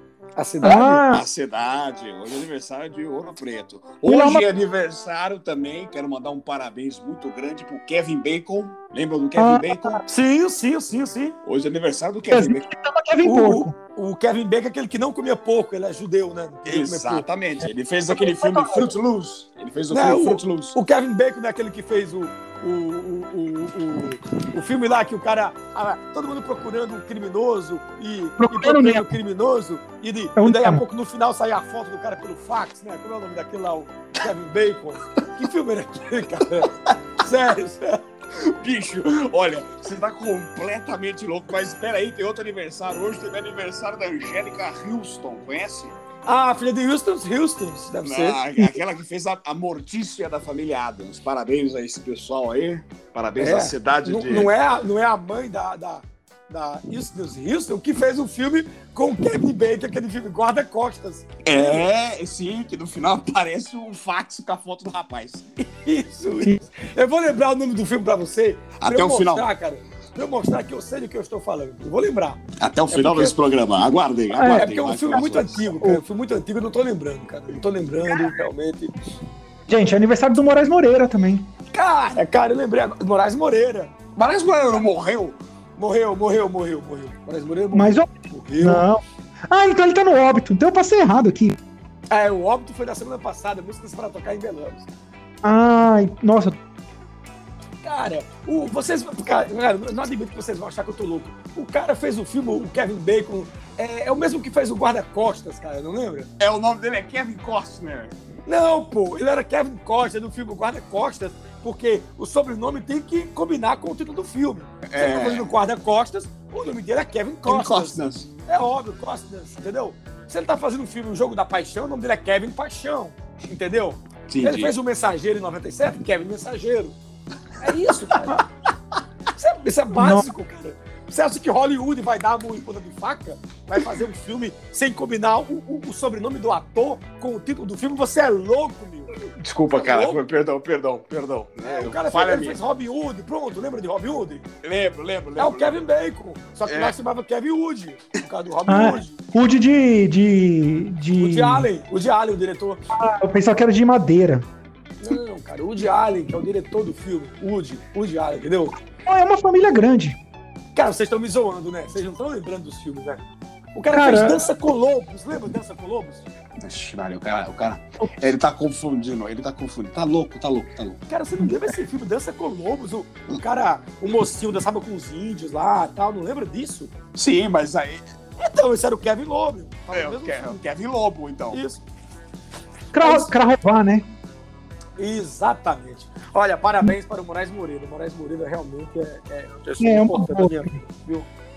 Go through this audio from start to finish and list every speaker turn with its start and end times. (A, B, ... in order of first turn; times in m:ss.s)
0:00.4-0:01.0 A
0:00.6-0:01.2 B
0:01.1-0:10.0 C
0:04.0-0:04.5 B
0:09.4-0:10.0 B
0:10.1-0:11.4 A
0:11.4-0:12.7 C
0:12.3-0:13.8 B
0:13.2-0:17.2 A
0:16.7-0:20.8 C
0:18.2-0:18.9 B
0:19.9-0:38.0 A
0:28.4-0:29.1 B
0:30.4-0:30.8 B
0:38.4-0:45.9 C
0:46.3-0:48.7 A
0:48.0-0:54.5 C
0:53.4-1:01.8 A
1:01.4-1:05.5 C
1:05.6-1:13.4 A
1:08.8-1:09.5 C
1:12.6-1:15.8 C
1:14.3-1:14.7 B
1:14.5-1:19.0 A
1:18.1-1:18.4 B
1:19.7-1:21.5 B
1:21.7-1:23.9 A
1:24.2-1:25.4 C
1:25.8-1:28.9 A
1:27.7-1:31.6 B
1:32.1-1:34.9 A
1:35.4-1:36.6 B
1:37.8-1:46.3 A
1:46.4-1:48.1 C
1:48.5-2:07.0 A
1:54.8-1:55.5 C
1:57.5-1:58.3 C
2:04.3-2:04.7 C
2:07.6-2:08.4 A
2:09.4-2:19.2 A
2:09.9-2:10.3 B
2:19.4-2:22.6 C
2:19.8-2:20.2 A
2:21.6-2:24.4 A
2:24.6-2:25.8 C
2:25.4-2:29.2 A
2:26.7-2:27.0 C
2:28.7-2:31.7 B
2:31.2-2:32.8 A
2:32.9-2:34.5 B
2:35.0-2:38.8 A
2:39.1-2:40.2 B
2:40.8-2:43.2 A
2:43.7-2:46.3 A
2:43.9-2:44.5 B
2:46.6-2:51.0 C
2:51.1-2:56.9 A
2:57.2-2:58.0 C
2:58.4-3:00.6 A
2:59.9-3:01.6 C
3:01.5-3:01.8 A
3:02.9-3:04.1 B
3:03.0-3:03.3 A
3:05.0-3:11.3 A
3:09.8-3:10.7 B